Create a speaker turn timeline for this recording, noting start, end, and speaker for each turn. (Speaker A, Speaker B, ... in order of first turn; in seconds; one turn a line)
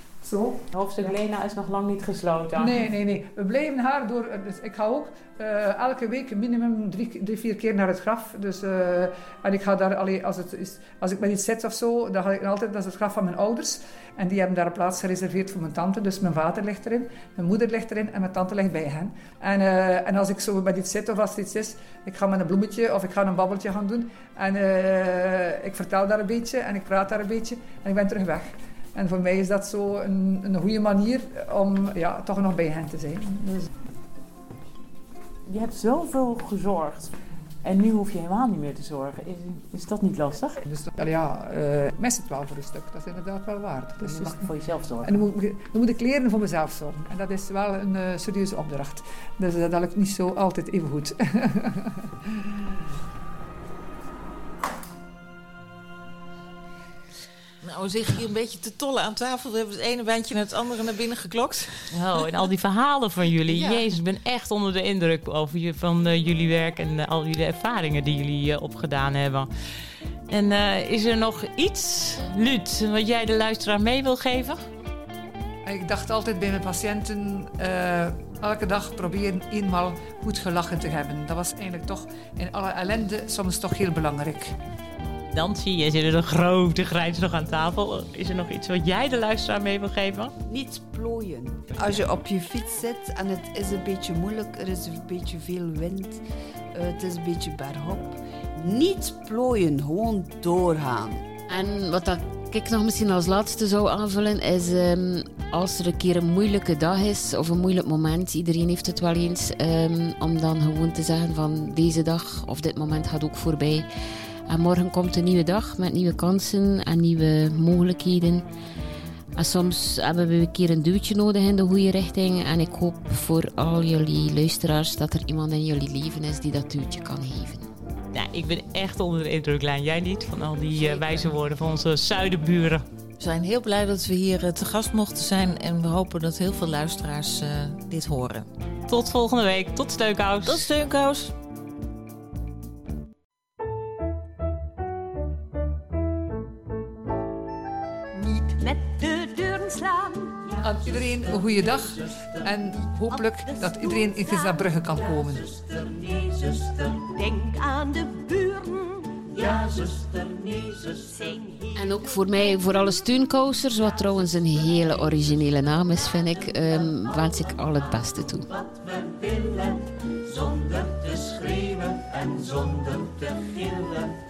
Speaker A: 0.2-1.1
Speaker B: 0.7-2.9
Speaker A: 2.5-33.7
Speaker B: 35.5-40.6
Speaker A: 40.7-44.5
Speaker B: 44.0-45.2
Speaker A: 45.0-52.1
Speaker C: 57.6-62.5
Speaker B: 61.9-69.5
Speaker C: 63.5-64.0
Speaker B: 70.3-74.6
Speaker A: 75.7-84.5
Speaker B: 85.3-90.3
Speaker D: 90.5-96.2
Speaker D: 96.7-101.2
Speaker E: 101.5-113.9
Speaker E: 114.5-118.5
Speaker E: 119.4-127.7
Speaker B: 128.1-132.9
Speaker C: 133.2-138.5
Speaker B: 138.9-140.7
Speaker C: 140.4-141.3
Speaker F: 148.2-150.9
Speaker A: 150.6-155.5
Speaker F: 153.1-155.2
Speaker G: 155.3-155.7
Speaker F: 155.9-159.7
Speaker G: 159.4-161.1
Speaker F: 161.1-162.1
Speaker E: 161.7-168.5
Speaker G: 168.6-169.6
Speaker G: 170.3-174.1